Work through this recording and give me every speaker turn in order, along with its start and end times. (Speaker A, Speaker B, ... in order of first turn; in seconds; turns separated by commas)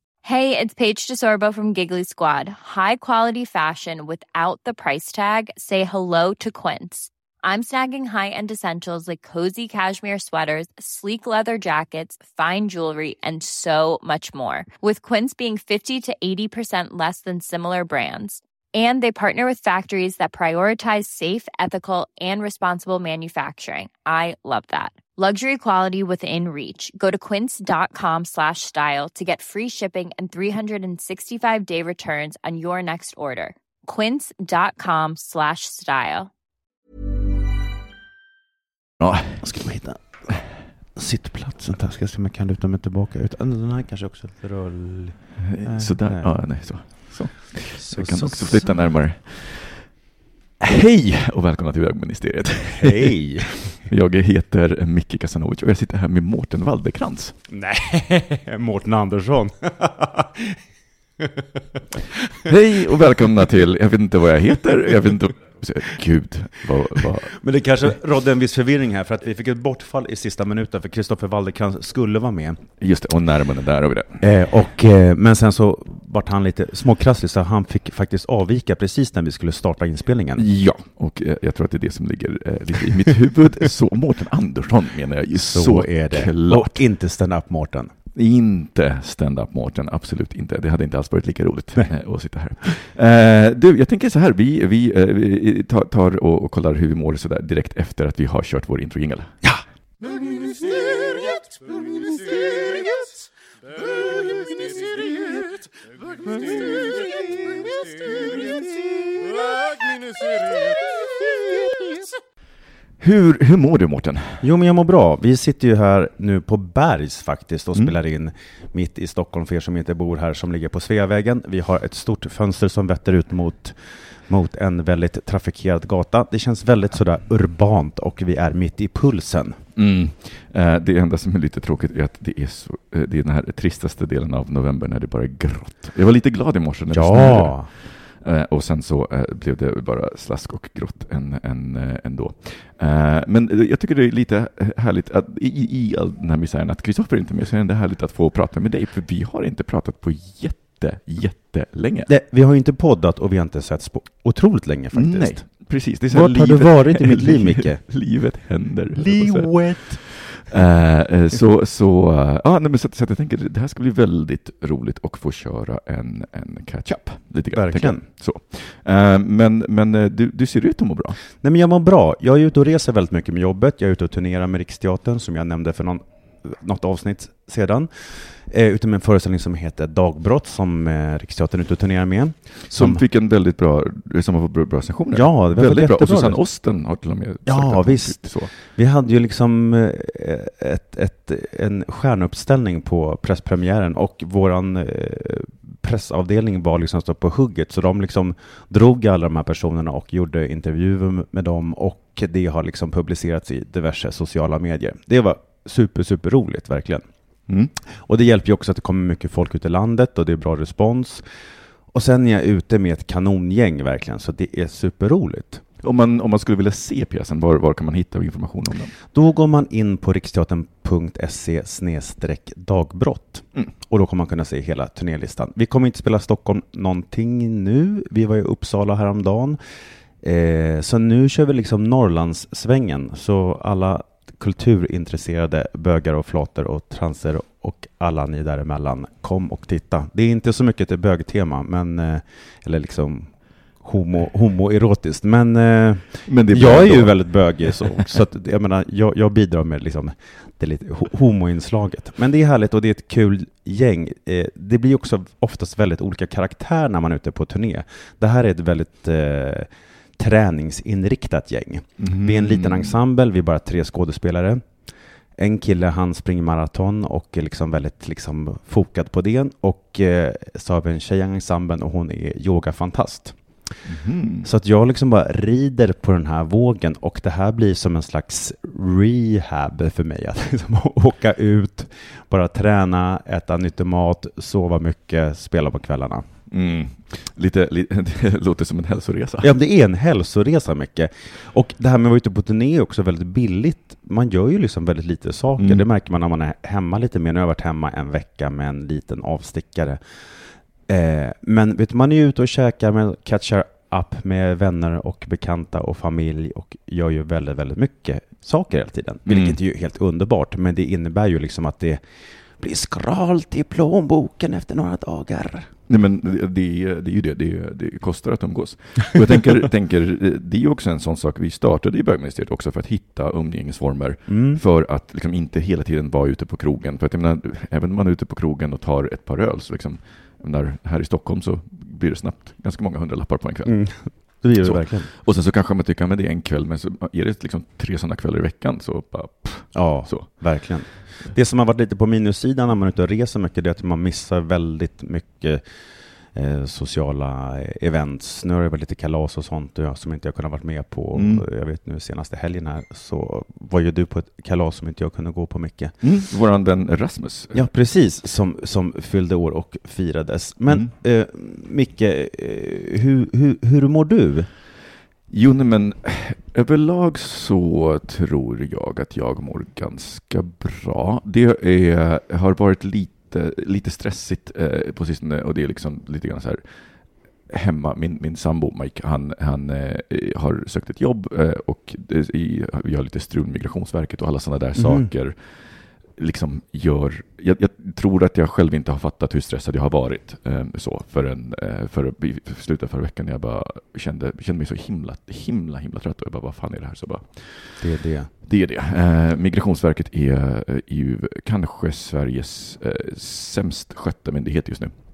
Speaker A: 0.2-36.3, Speaker B: 39.0-39.5, Speaker C: 39.4-47.1, Speaker B: 45.4-49.9, Speaker C: 47.7-48.7, Speaker B: 50.6-53.1, Speaker C: 52.8-53.9, Speaker B: 53.8-57.4, Speaker C: 57.5-60.6, Speaker C: 61.2-61.8, Speaker B: 62.5-67.4, Speaker C: 67.0-72.6, Speaker B: 72.8-74.3, Speaker C: 74.2-80.5, Speaker B: 80.4-86.8, Speaker C: 85.4-87.9, Speaker B: 88.1-99.5, Speaker C: 101.9-102.8, Speaker C: 104.1-105.2, Speaker C: 106.6-107.1, Speaker B: 113.0-114.5, Speaker C: 114.4-129.6, Speaker B: 129.8-152.1, Speaker C: 136.9-137.7, Speaker C: 152.1-155.4, Speaker B: 154.9-171.2, Speaker C: 156.1-157.8, Speaker C: 158.9-160.0, Speaker C: 167.5-168.0, Speaker C: 171.4-183.0, Speaker B: 182.7-188.5, Speaker C: 185.1-186.5, Speaker C: 187.4-207.1, Speaker B: 207.5-207.7, Speaker C: 207.9-211.3, Speaker C: 211.9-215.6, Speaker B: 215.8-218.9, Speaker C: 219.1-229.6, Speaker C: 230.2-264.8, Speaker B: 246.2-248.1, Speaker B: 262.0-263.0, Speaker C: 265.4-273.8, Speaker B: 273.8-274.5, Speaker C: 274.4-286.3, Speaker B: 286.5-289.5, Speaker C: 289.4-315.7, Speaker B: 295.6-295.9, Speaker B: 309.3-309.6, Speaker B: 315.9-341.3, Speaker C: 324.3-324.6, Speaker C: 333.6-335.1, Speaker C: 339.7-345.6, Speaker C: 346.3-356.0, Speaker B: 351.1-351.4, Speaker B: 356.0-357.7, Speaker C: 357.5-364.5, Speaker B: 365.3-376.9, Speaker B: 377.5-397.9, Speaker C: 384.8-385.1, Speaker C: 397.8-398.3, Speaker B: 398.4-404.9